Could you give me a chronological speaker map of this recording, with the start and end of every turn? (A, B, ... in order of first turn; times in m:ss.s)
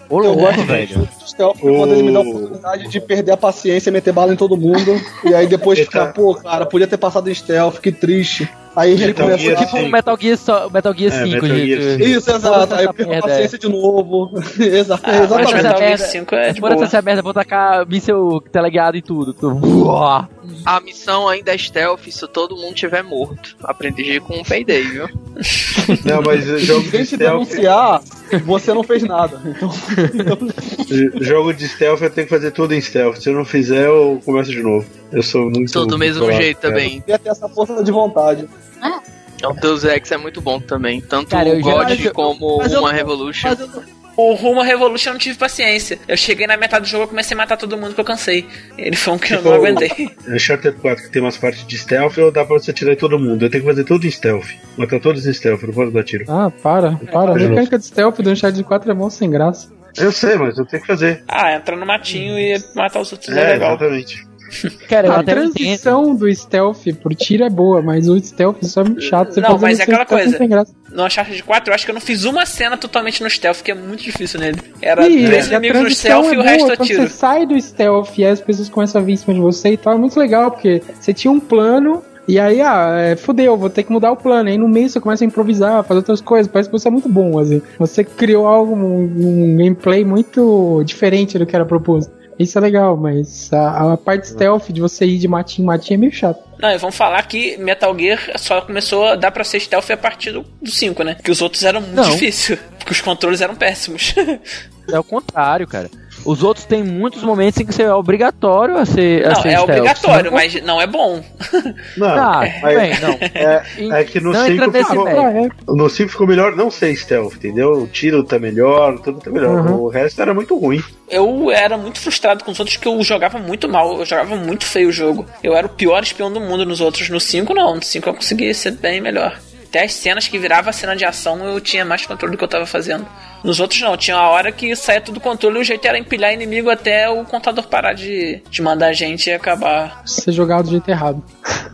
0:00.1-0:01.0 A
0:00.2-0:09.8 B
0:00.5-0:01.0 C
0:01.6-0:03.1 C
0:05.7-0:06.2 C
0:09.0-0:10.0 C
0:09.0-0:13.5 A
0:11.1-0:12.2 C
0:12.0-0:15.8 B
0:15.0-0:17.0 D
0:15.4-0:20.3 A
0:20.7-0:25.1 E
0:25.5-0:26.2 D
0:26.0-0:27.7 C
0:26.8-0:30.8 B
0:30.9-0:36.9 C
0:35.7-0:37.0 E
0:36.9-0:38.5 B
0:39.4-0:43.6 E
0:41.3-0:42.2 A
0:41.6-0:43.8 B
0:44.2-0:50.1 D
0:49.3-0:56.3 C
0:56.3-0:59.7 F
0:57.2-0:57.5 A
0:57.3-0:57.7 C
1:00.0-1:01.2 C
1:01.3-1:03.8 D
1:02.1-1:02.4 F
1:03.3-1:04.3 C
1:04.9-1:05.8 A
1:05.1-1:10.7 F
1:09.3-1:17.2 D
1:15.0-1:36.4 F
1:15.2-1:15.6 C
1:36.6-1:44.4 D
1:41.9-1:42.3 A
1:44.9-1:50.4 A
1:49.2-1:51.8 D
1:52.0-2:00.9 C
1:52.1-1:55.3 A
1:52.4-1:53.6 D
1:54.8-1:55.5 F
1:59.5-1:59.8 F
2:01.1-2:20.0 D
2:20.1-2:21.3 F